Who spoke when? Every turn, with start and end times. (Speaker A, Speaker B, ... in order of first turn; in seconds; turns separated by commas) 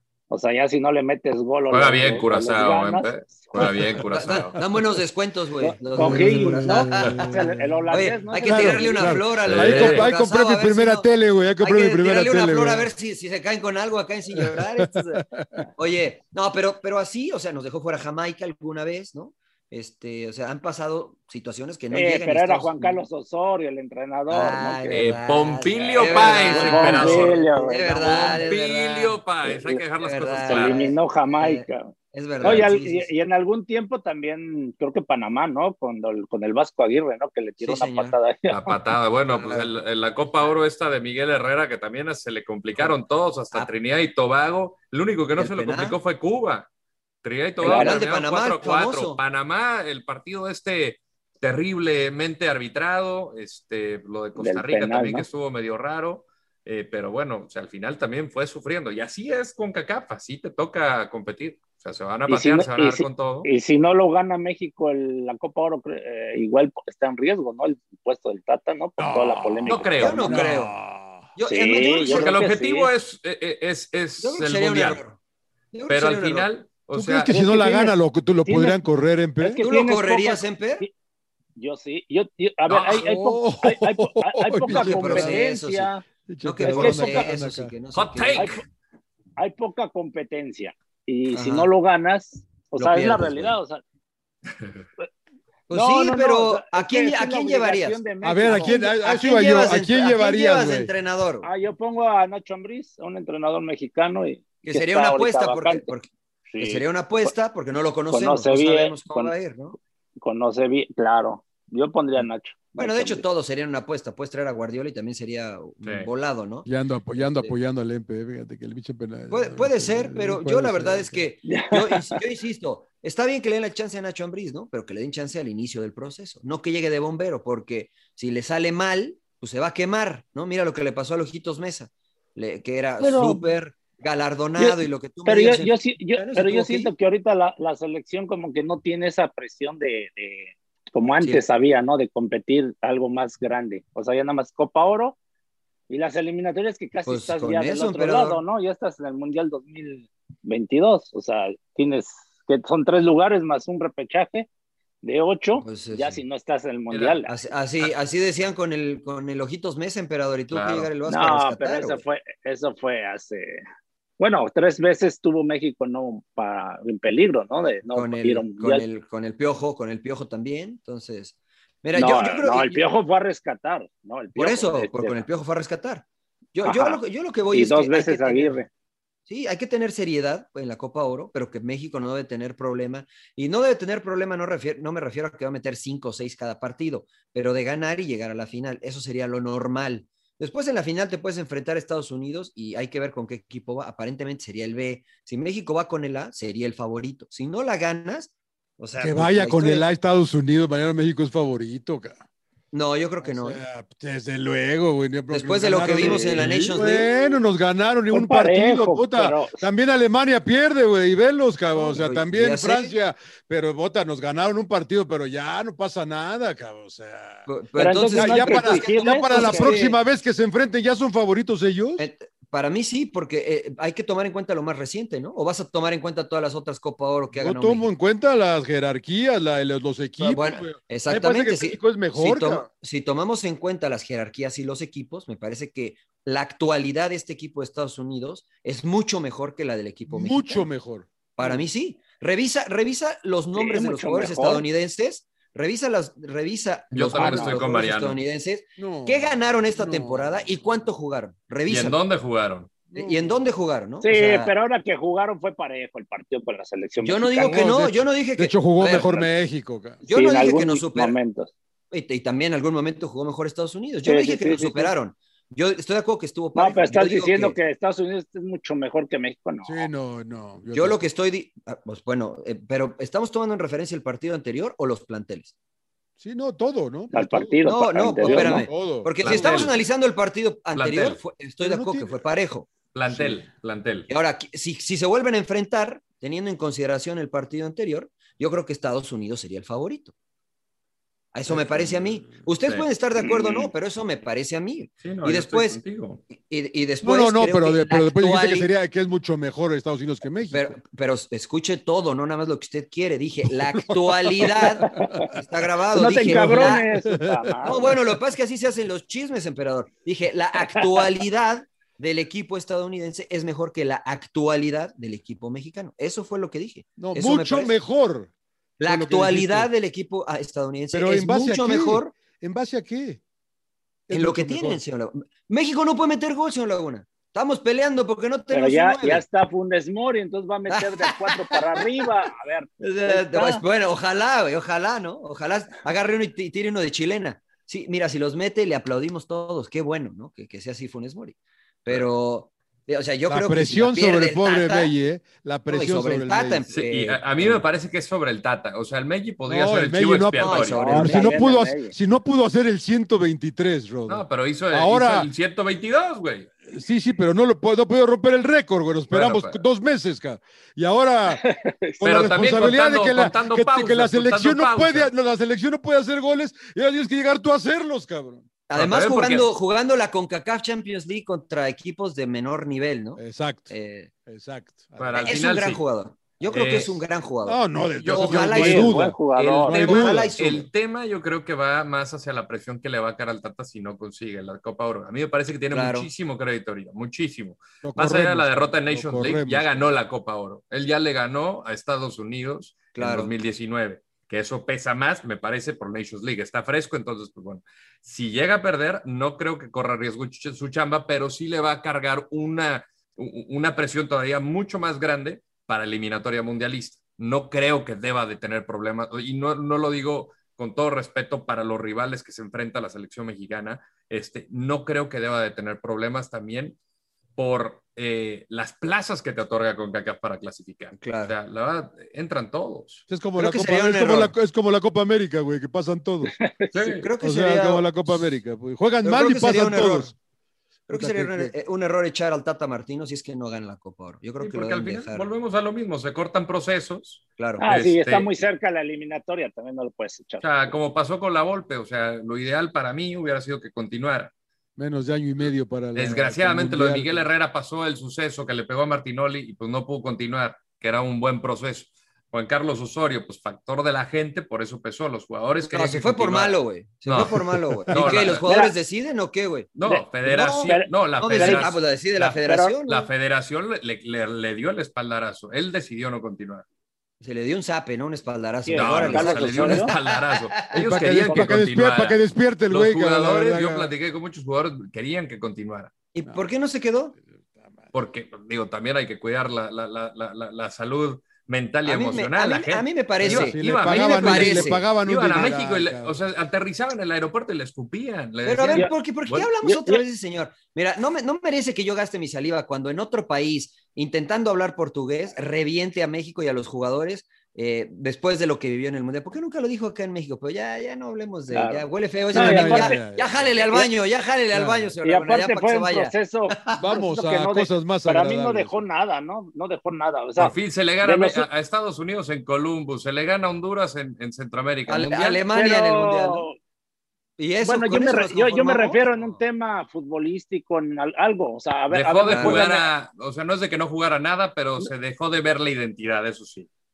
Speaker A: 0.3-3.7, Speaker B: 1.7-4.6, Speaker C: 3.6-4.0, Speaker D: 4.1-15.2, Speaker A: 5.6-9.2, Speaker C: 6.0-12.9, Speaker B: 9.4-10.1, Speaker C: 14.3-15.7, Speaker D: 15.8-23.0, Speaker A: 21.9-25.0, Speaker D: 24.3-33.1, Speaker B: 24.9-27.4, Speaker A: 26.0-28.5, Speaker B: 28.0-30.9, Speaker A: 30.4-38.8, Speaker B: 32.4-32.7, Speaker D: 37.6-38.2, Speaker B: 38.5-46.7, Speaker D: 39.3-39.8, Speaker D: 45.4-46.0, Speaker B: 47.2-63.5, Speaker D: 47.6-49.2, Speaker A: 47.6-48.0, Speaker A: 54.4-55.3, Speaker A: 62.3-70.2, Speaker C: 69.0-71.3, Speaker B: 69.7-70.5, Speaker D: 70.0-70.8, Speaker D: 71.4-72.4, Speaker A: 71.5-72.9, Speaker B: 72.0-75.0, Speaker D: 74.2-75.2, Speaker D: 75.7-76.5, Speaker B: 75.9-77.3, Speaker C: 76.9-79.6, Speaker A: 77.3-78.8, Speaker A: 79.4-80.9, Speaker D: 79.6-80.9, Speaker A: 81.6-86.0, Speaker B: 82.7-83.0, Speaker C: 82.8-85.4, Speaker D: 84.6-85.9, Speaker C: 86.3-87.7, Speaker D: 86.4-88.6, Speaker A: 86.6-87.3, Speaker B: 87.9-88.6, Speaker A: 89.4-93.8, Speaker D: 91.3-91.7, Speaker D: 92.8-93.6, Speaker B: 94.6-94.8, Speaker D: 95.7-101.5, Speaker A: 95.7-98.9, Speaker C: 98.2-100.9, Speaker A: 101.4-105.9, Speaker D: 104.6-109.8, Speaker A: 106.5-107.3, Speaker A: 108.1-109.3, Speaker A: 110.2-113.2, Speaker D: 112.8-117.5, Speaker B: 115.8-116.1, Speaker C: 116.7-121.3, Speaker D: 119.3-136.9, Speaker A: 121.5-122.0, Speaker A: 133.0-133.5, Speaker A: 134.6-145.2, Speaker A: 145.9-154.5, Speaker D: 147.1-148.4, Speaker A: 155.0-157.4, Speaker D: 155.6-156.2, Speaker B: 156.9-157.2, Speaker D: 157.3-162.0, Speaker B: 160.5-160.9, Speaker A: 161.0-163.6, Speaker A: 164.2-168.8, Speaker D: 167.9-172.8, Speaker A: 171.9-175.2, Speaker D: 174.3-178.6, Speaker A: 176.6-177.0, Speaker A: 177.5-178.7, Speaker D: 179.3-199.9, Speaker C: 199.0-202.2, Speaker D: 202.7-203.6, Speaker C: 203.2-217.5, Speaker D: 205.3-207.3, Speaker A: 205.9-206.8, Speaker A: 208.1-209.6, Speaker D: 211.8-212.9, Speaker D: 217.5-220.0, Speaker A: 217.8-219.8, Speaker C: 218.1-222.1, Speaker D: 222.0-227.9, Speaker C: 227.3-232.7, Speaker D: 230.2-240.7, Speaker C: 240.1-241.7, Speaker D: 241.4-252.0, Speaker A: 243.6-244.7, Speaker B: 246.9-248.2, Speaker A: 247.2-247.6, Speaker C: 248.8-250.7, Speaker B: 251.7-252.7, Speaker C: 252.9-253.4, Speaker D: 252.9-254.5, Speaker A: 254.0-257.6, Speaker D: 257.0-259.3, Speaker C: 257.4-260.0, Speaker D: 260.0-261.2, Speaker A: 260.1-261.5, Speaker D: 261.9-267.6, Speaker A: 264.1-264.9, Speaker A: 266.6-269.9, Speaker C: 269.6-271.0, Speaker D: 270.7-275.5, Speaker C: 276.2-277.6, Speaker A: 277.1-278.7, Speaker D: 277.7-282.7, Speaker C: 278.2-279.7, Speaker B: 279.2-279.7, Speaker B: 280.8-281.2, Speaker C: 281.6-282.2, Speaker B: 282.9-284.1, Speaker C: 283.1-283.4, Speaker D: 284.1-290.1, Speaker D: 291.3-298.7, Speaker C: 291.5-292.4, Speaker A: 293.2-293.7, Speaker B: 295.0-296.2, Speaker C: 297.0-300.7, Speaker D: 300.5-306.9, Speaker C: 303.5-305.4, Speaker A: 304.9-305.1, Speaker A: 305.9-307.9, Speaker C: 306.2-308.0, Speaker D: 307.7-317.8, Speaker C: 317.0-318.3, Speaker D: 318.8-322.1, Speaker C: 318.9-319.7, Speaker C: 320.9-323.2, Speaker C: 324.1-324.8, Speaker D: 324.1-329.2, Speaker A: 328.5-333.6, Speaker D: 330.7-332.1, Speaker D: 332.8-344.9, Speaker C: 343.3-346.6, Speaker D: 345.7-347.6, Speaker B: 346.7-351.0, Speaker C: 349.5-355.3, Speaker D: 350.4-351.5, Speaker A: 350.7-351.9, Speaker B: 354.1-356.5, Speaker C: 356.7-361.4, Speaker B: 359.1-359.6, Speaker A: 361.4-362.0, Speaker C: 362.0-368.5, Speaker B: 362.0-365.1, Speaker D: 368.7-374.1, Speaker B: 368.7-369.5, Speaker C: 373.2-373.7, Speaker C: 374.3-375.7, Speaker B: 375.0-375.8, Speaker D: 375.2-379.0, Speaker B: 376.5-377.0, Speaker C: 377.5-380.4, Speaker B: 378.0-378.7, Speaker A: 378.5-379.8, Speaker B: 379.4-416.8, Speaker D: 379.8-380.7, Speaker D: 385.7-386.1, Speaker C: 387.8-389.9, Speaker D: 392.9-393.3, Speaker B: 417.4-423.0, Speaker D: 421.0-421.3, Speaker C: 423.1-426.3, Speaker D: 423.4-424.3, Speaker A: 426.4-426.9, Speaker B: 426.7-427.1, Speaker D: 426.9-428.1, Speaker C: 427.2-430.1, Speaker D: 429.0-430.1, Speaker D: 430.9-435.3, Speaker C: 430.9-431.5, Speaker B: 434.4-438.5, Speaker D: 437.4-437.7, Speaker A: 437.6-440.7, Speaker B: 440.4-444.3, Speaker C: 444.8-447.3, Speaker B: 445.9-458.4, Speaker D: 455.6-463.1, Speaker C: 457.6-458.2, Speaker A: 458.4-458.8, Speaker B: 459.8-466.6, Speaker A: 459.9-461.7, Speaker A: 462.4-462.7, Speaker D: 467.2-470.9, Speaker A: 468.6-469.9, Speaker B: 468.8-475.9, Speaker C: 470.7-473.9, Speaker D: 476.1-477.2, Speaker C: 477.3-477.9, Speaker B: 477.9-489.5, Speaker D: 481.9-485.5, Speaker C: 483.2-486.2, Speaker D: 488.4-506.9, Speaker A: 489.6-490.0, Speaker A: 501.5-503.1, Speaker C: 502.3-503.6, Speaker A: 503.6-503.9, Speaker C: 504.5-504.9, Speaker A: 505.0-511.5, Speaker C: 506.8-508.9, Speaker B: 510.4-515.4, Speaker D: 514.9-516.5, Speaker A: 515.4-516.5, Speaker D: 517.4-519.4, Speaker A: 517.6-522.9, Speaker B: 521.9-526.7, Speaker D: 522.3-522.7